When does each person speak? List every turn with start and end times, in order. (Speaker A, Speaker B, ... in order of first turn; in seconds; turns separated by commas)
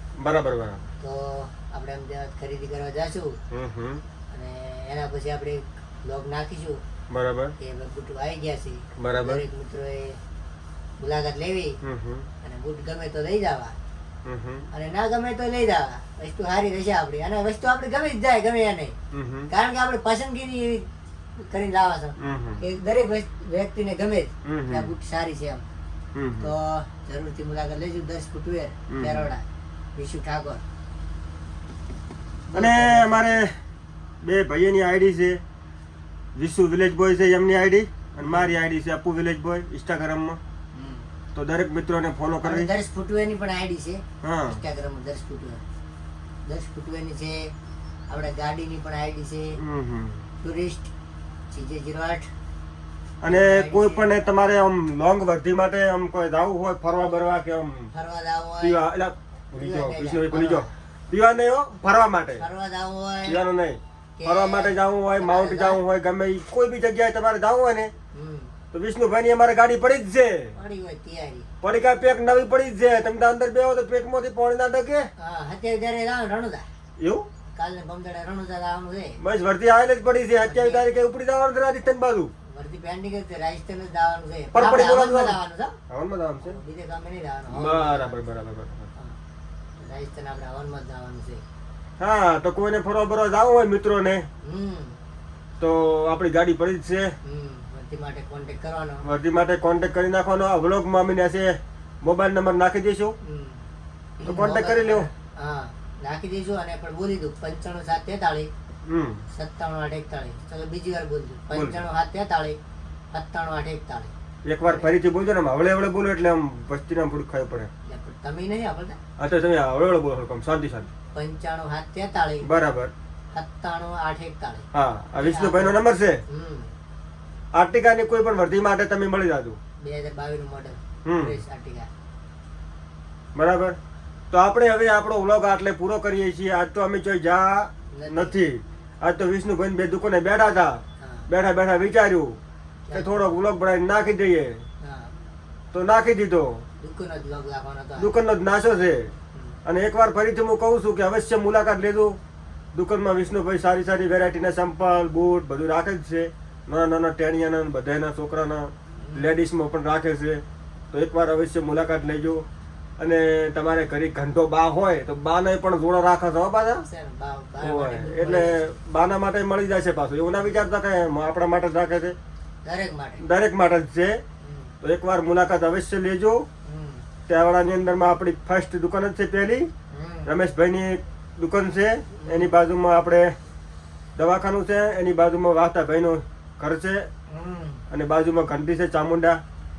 Speaker A: 0.2-0.9, Speaker B: 1.0-3.4, Speaker A: 3.5-4.0, Speaker B: 4.3-6.8, Speaker A: 7.1-7.5, Speaker B: 7.6-10.2, Speaker A: 9.0-9.4, Speaker B: 11.0-11.8, Speaker A: 11.8-12.3, Speaker B: 12.4-13.8, Speaker A: 14.2-14.7, Speaker B: 14.7-18.9, Speaker A: 19.1-19.5, Speaker B: 19.5-25.6, Speaker A: 22.2-22.6, Speaker A: 24.4-24.9, Speaker A: 26.1-26.5, Speaker B: 26.4-30.6, Speaker A: 28.9-29.3, Speaker B: 32.5-33.2, Speaker A: 32.5-33.5, Speaker A: 34.2-35.4, Speaker A: 36.3-40.4, Speaker B: 38.2-38.5, Speaker B: 40.7-41.1, Speaker A: 41.3-42.7, Speaker B: 42.4-45.6, Speaker A: 44.2-44.6, Speaker B: 46.4-47.5, Speaker B: 48.1-49.6, Speaker A: 49.5-50.2, Speaker B: 50.4-50.9, Speaker B: 51.5-52.3, Speaker A: 53.2-57.9, Speaker B: 53.3-54.1, Speaker B: 57.9-58.8, Speaker A: 58.6-62.5, Speaker B: 59.5-60.7, Speaker B: 62.3-63.4, Speaker A: 63.2-67.9, Speaker B: 64.2-65.8, Speaker B: 68.1-68.5, Speaker A: 68.7-70.6, Speaker B: 70.5-71.5, Speaker A: 71.6-75.1, Speaker B: 75.2-76.7, Speaker A: 77.0-77.3, Speaker B: 77.5-79.2, Speaker A: 79.2-82.3, Speaker B: 80.4-80.9, Speaker B: 82.5-85.8, Speaker A: 84.5-86.6, Speaker B: 86.4-88.2, Speaker A: 87.5-88.9, Speaker B: 89.8-91.4, Speaker A: 92.0-94.2, Speaker B: 94.4-95.0, Speaker A: 95.6-97.1, Speaker B: 97.2-99.0, Speaker A: 99.0-103.2, Speaker B: 103.2-103.7, Speaker B: 104.2-108.5, Speaker A: 104.2-105.1, Speaker A: 108.8-109.2, Speaker B: 109.3-112.6, Speaker A: 111.5-111.8, Speaker B: 113.1-114.1, Speaker A: 114.4-117.7, Speaker B: 114.7-114.9, Speaker B: 117.8-119.0, Speaker A: 119.2-120.9, Speaker B: 121.1-122.5, Speaker A: 122.4-122.9, Speaker B: 123.3-124.7, Speaker A: 124.7-126.2, Speaker B: 125.2-126.7, Speaker A: 127.5-129.6, Speaker B: 129.8-131.9, Speaker A: 131.0-131.4, Speaker A: 133.3-133.8, Speaker A: 134.3-142.3, Speaker B: 137.9-138.4, Speaker B: 141.0-141.3, Speaker B: 142.8-143.4, Speaker A: 142.9-144.6, Speaker B: 144.8-145.1, Speaker A: 145.7-146.6, Speaker B: 146.8-148.1, Speaker A: 148.0-149.1, Speaker A: 149.6-152.1, Speaker A: 152.7-162.4, Speaker B: 159.0-159.3, Speaker A: 163.0-166.8, Speaker B: 166.8-168.8, Speaker A: 167.6-172.2, Speaker B: 172.6-173.2, Speaker A: 173.2-174.2, Speaker B: 174.4-174.7, Speaker A: 174.8-176.4, Speaker B: 176.6-177.1, Speaker A: 177.2-179.7, Speaker B: 179.9-180.3, Speaker A: 180.2-183.3, Speaker B: 182.2-182.5, Speaker A: 184.2-187.1, Speaker B: 187.3-187.8, Speaker A: 187.9-189.4